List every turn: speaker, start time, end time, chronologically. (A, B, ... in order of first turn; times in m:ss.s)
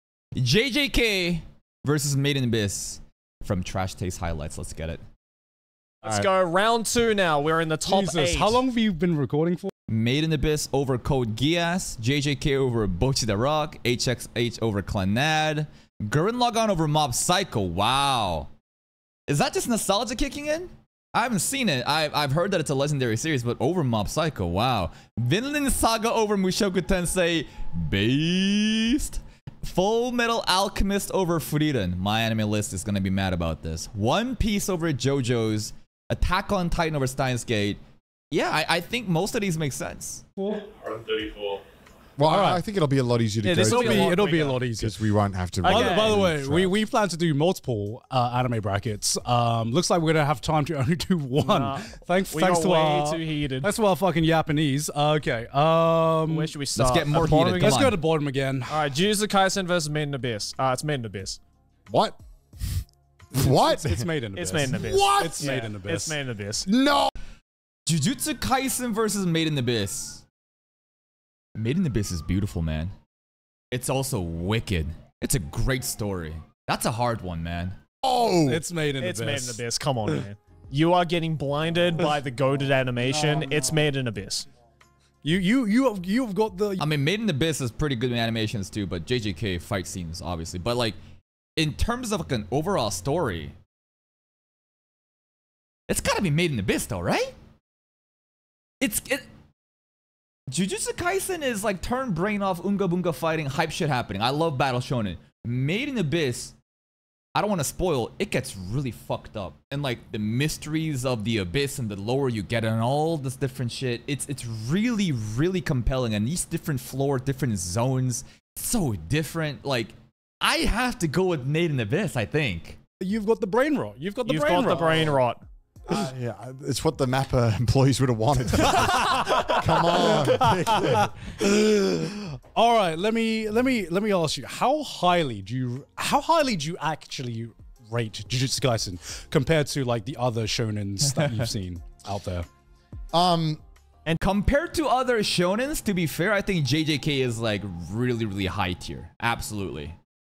0:00.4-0:05.0 A
0:06.0-0:08.6 B
0:07.9-0:09.7 C
0:09.9-0:18.5 A
0:19.3-0:37.8 A
0:38.3-0:40.2 A
0:40.4-0:40.7 C
0:40.9-0:41.6 B
0:42.2-0:44.2 D
0:42.3-0:42.6 C
0:43.4-0:44.6 B
0:43.5-0:45.0 C
0:44.8-0:46.8 D
0:45.6-0:56.5 C
0:45.6-0:46.2 B
0:51.4-0:53.7 B
0:56.3-0:57.9 B
0:56.8-0:58.0 A
0:57.1-0:58.8 C
0:58.7-1:01.4 B
1:01.9-1:02.2 D
1:03.3-1:06.2 C
1:03.3-1:04.1 D
1:04.3-1:06.7 B
1:04.7-1:05.6 D
1:06.7-1:07.1 D
1:07.9-1:10.2 A
1:11.6-1:12.9 A
1:13.7-1:17.8 A
1:18.0-1:18.6 D
1:18.5-1:19.6 C
1:19.0-1:24.5 B
1:23.0-1:23.8 C
1:25.2-1:26.8 C
1:26.8-1:31.0 A
1:31.6-1:33.6 A
1:35.9-1:37.3 A
1:38.8-1:39.3 A
1:40.5-1:46.6 A
1:47.4-2:02.8 A
2:03.0-2:05.2 C
2:04.2-2:05.4 B
2:05.9-2:11.2 D
2:08.7-2:22.5 C
2:23.1-2:23.6 D
2:24.2-2:30.0 A